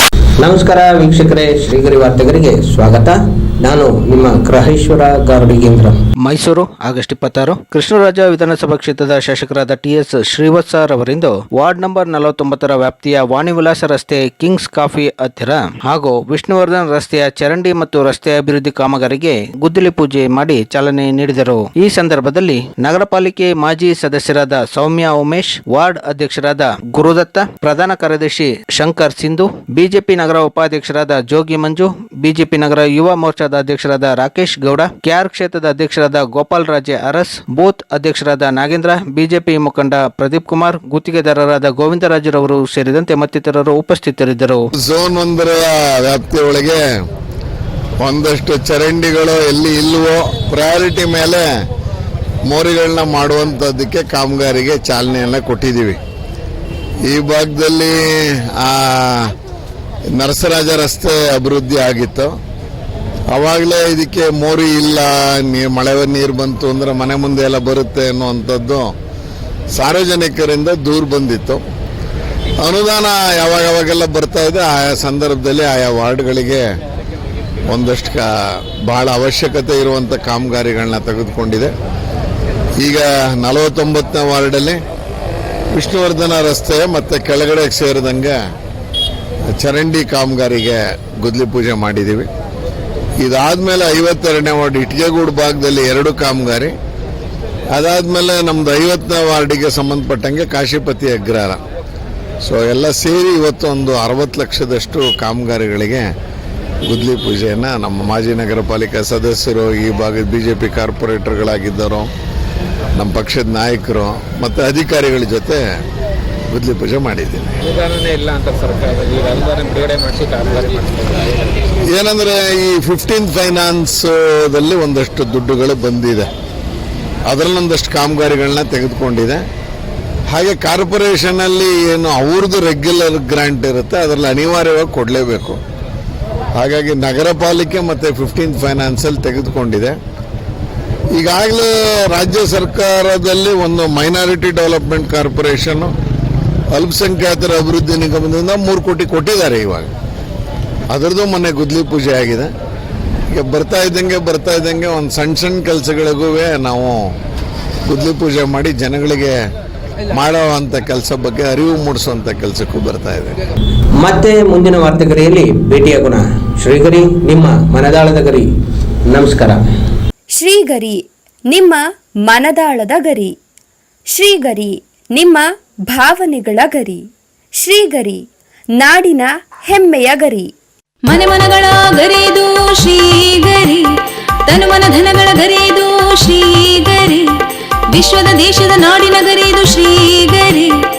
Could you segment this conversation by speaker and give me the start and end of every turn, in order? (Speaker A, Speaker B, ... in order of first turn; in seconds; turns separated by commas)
Speaker A: 0.4-6.0, Speaker B: 6.2-44.6, Speaker C: 44.8-46.8, Speaker C: 48.0-51.4, Speaker C: 52.5-56.0, Speaker C: 57.0-59.3, Speaker C: 60.1-62.3, Speaker C: 63.3-68.9, Speaker C: 69.7-71.6, Speaker C: 72.6-76.6, Speaker C: 77.7-81.7, Speaker C: 82.8-84.8, Speaker C: 85.7-88.4, Speaker C: 89.5-92.3, Speaker C: 93.2-96.7, Speaker C: 97.7-101.6, Speaker C: 102.4-106.1, Speaker C: 106.8-112.1, Speaker C: 112.9-115.6, Speaker C: 116.5-117.5, Speaker D: 117.6-121.6, Speaker C: 121.9-126.3, Speaker C: 127.3-129.4, Speaker C: 130.3-135.6, Speaker C: 136.5-139.9, Speaker C: 141.1-145.9, Speaker C: 146.7-149.9, Speaker C: 150.9-152.5, Speaker C: 153.3-157.0, Speaker C: 157.8-159.3, Speaker C: 160.1-163.3, Speaker A: 164.1-168.4, Speaker A: 169.1-169.6, Speaker E: 170.3-173.3, Speaker E: 174.1-177.0, Speaker E: 177.6-178.2, Speaker E: 178.8-180.5, Speaker F: 181.0-183.9, Speaker F: 184.4-187.3, Speaker F: 187.9-190.8